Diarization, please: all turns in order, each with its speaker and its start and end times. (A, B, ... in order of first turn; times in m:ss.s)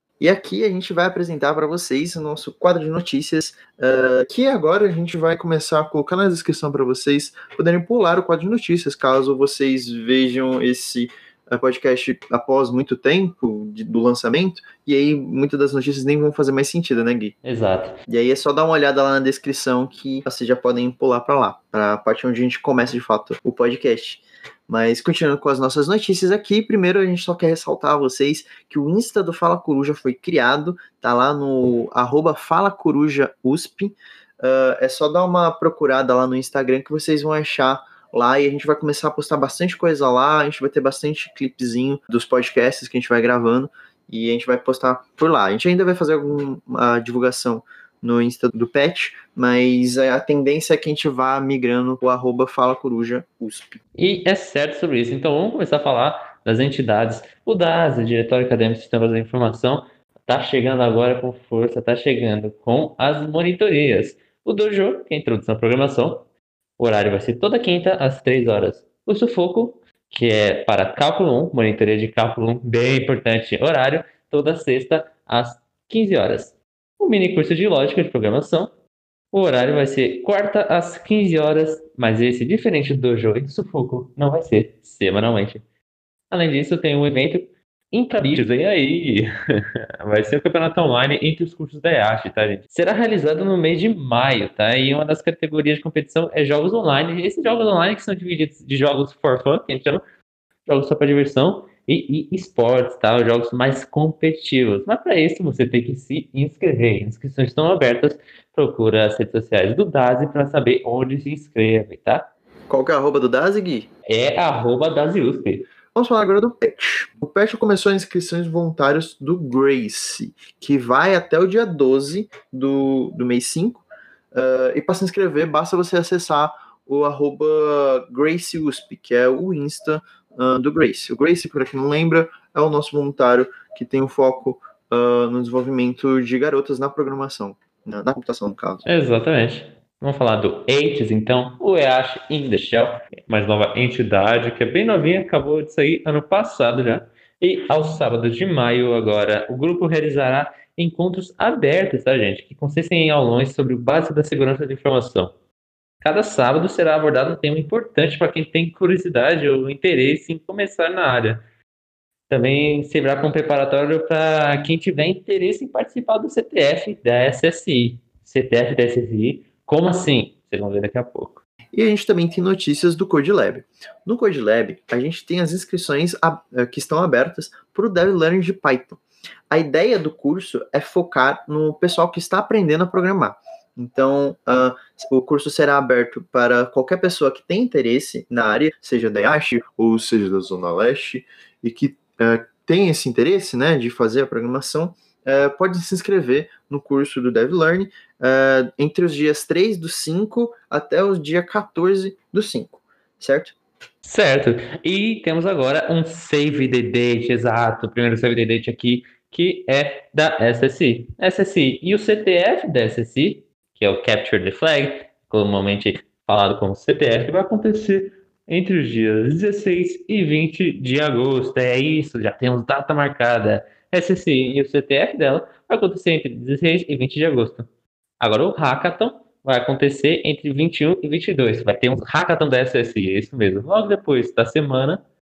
0:00.2-0:17.4 A
0:17.4-0:18.0 B
0:18.1-0:53.8 A
0:54.0-1:06.2 B
1:06.8-1:18.7 B
1:19.3-1:25.6 B
1:26.3-1:29.3 B
1:30.0-1:40.0 B
1:40.7-1:52.3 B
1:52.7-1:53.9 A
1:54.1-1:55.7 B
1:55.9-2:18.8 A
2:18.8-2:35.3 B
2:36.0-2:41.4 B
2:42.3-2:51.4 B
2:51.7-3:23.6 A
3:24.0-3:47.7 B
3:48.2-3:55.0 B